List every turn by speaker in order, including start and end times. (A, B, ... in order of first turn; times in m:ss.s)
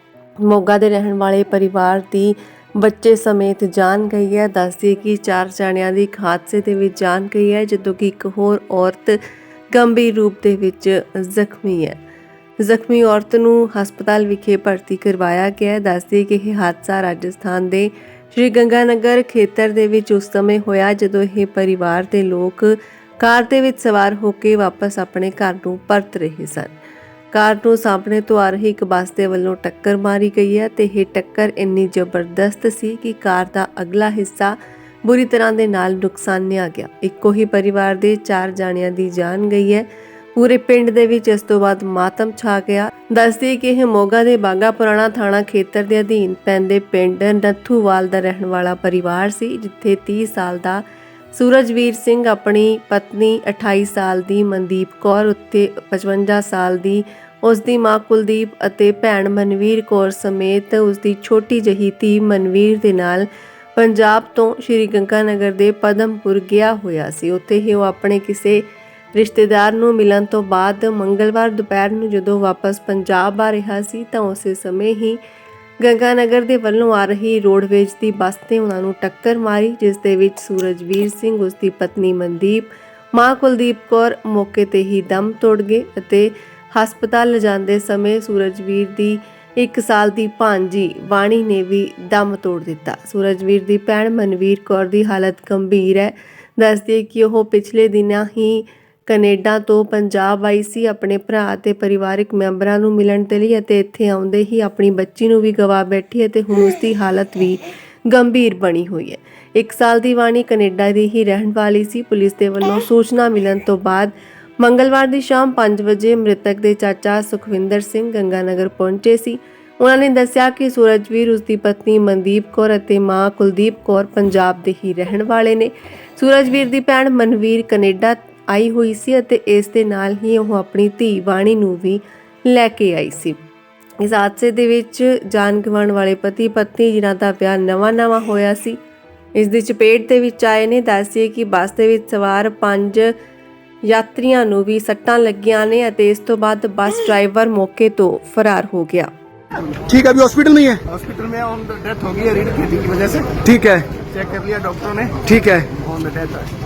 0:00.4-0:12.0 A
0:12.6-0:26.7 A
0:27.3-0:50.8 A
0:51.3-1:15.2 A
1:15.8-2:13.4 A
2:14.0-2:18.8 A
2:19.4-2:23.2 A
2:23.8-2:29.1 A
2:29.9-2:30.9 B
2:30.9-2:33.4 C
2:33.4-2:33.9 B
2:34.0-2:35.2 C
2:35.2-2:35.8 B
2:35.8-2:36.5 C